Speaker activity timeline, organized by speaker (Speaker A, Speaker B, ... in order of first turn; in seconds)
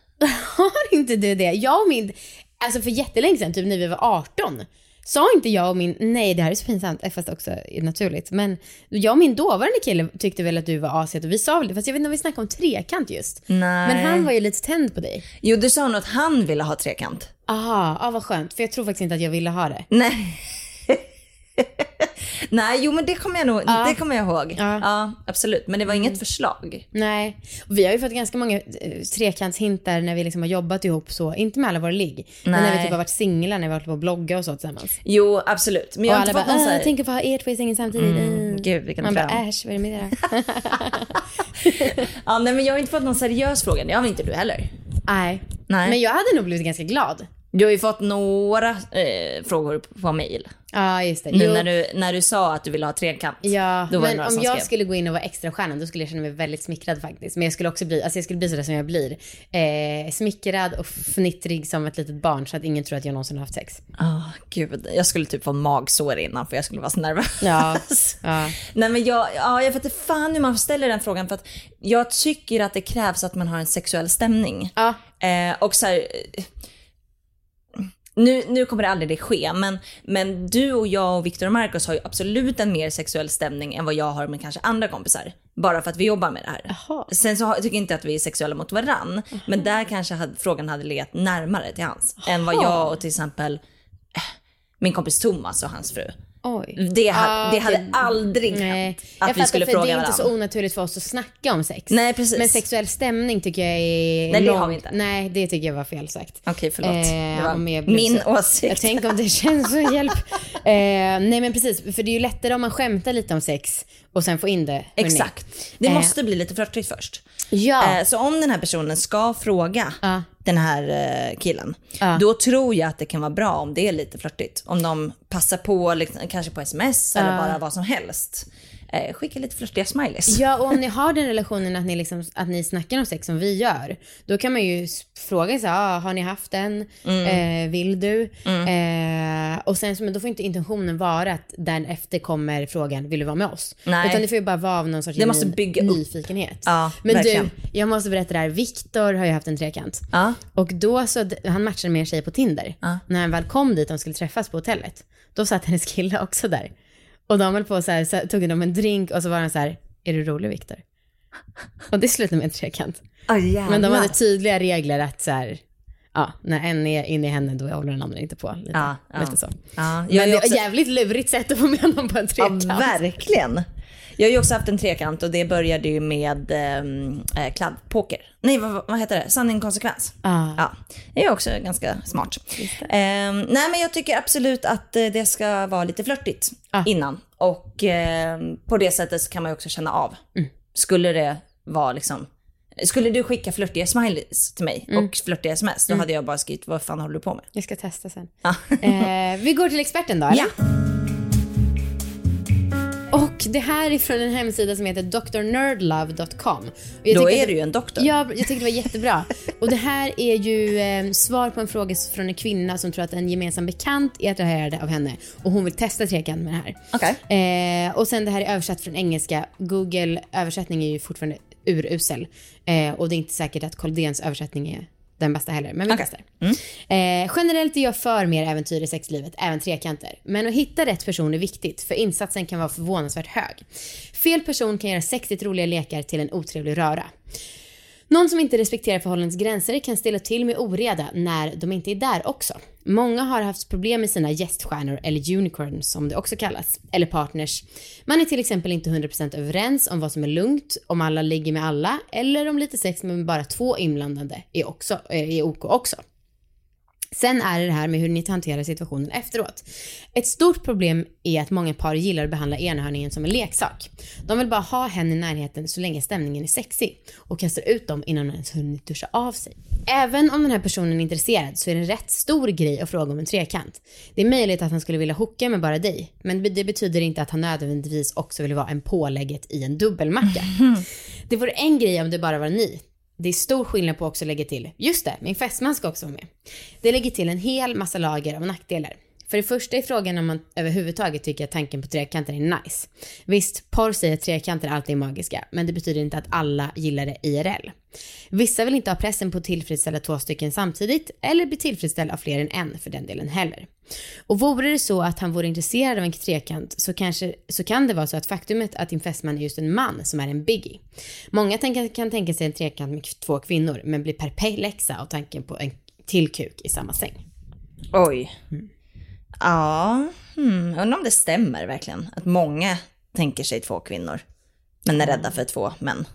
Speaker A: 0.2-15.2, 17.5-19.9, 23.7-24.0, 24.6-24.9, 25.9-26.2, 26.9-35.0, 36.1-42.0, 45.1-47.3, 50.7-51.7, 53.4-63.8, 67.4-68.6, 86.7-87.1, 92.5-92.8, 96.4-116.1, 117.5-118.0, 120.0-120.3, 127.2-127.6, 130.3-156.7, 157.3-160.8, 161.9-163.0, 163.7-165.6, 166.2-173.2, 180.2-180.6, 182.6-182.9, 197.5-200.5, 203.1-237.1, 238.1-256.0, 257.1-286.3, 286.8-297.8, 298.3-303.7, 304.3-317.2, 324.9-325.2
Speaker B: 13.5-14.3, 15.4-17.3, 19.9-21.0, 21.6-26.9, 32.5-33.0, 35.0-36.9, 38.0-39.4, 41.8-44.7, 45.7-46.0, 47.5-50.5, 51.3-54.7, 64.0-76.5, 77.8-93.6, 94.1-96.1, 96.8-100.3, 101.9-102.6, 104.3-104.9, 106.5-109.1, 115.0-117.2, 117.8-130.4, 137.1-137.4, 143.9-144.2, 145.2-146.0, 146.7-147.5, 150.1-150.4, 163.3-164.2, 168.7-170.6, 172.4-173.7, 174.2-190.2, 190.7-197.5, 198.4-199.1, 207.1-208.1, 216.9-217.2, 225.9-226.6, 317.9-318.3, 319.4-324.2, 324.9-326.1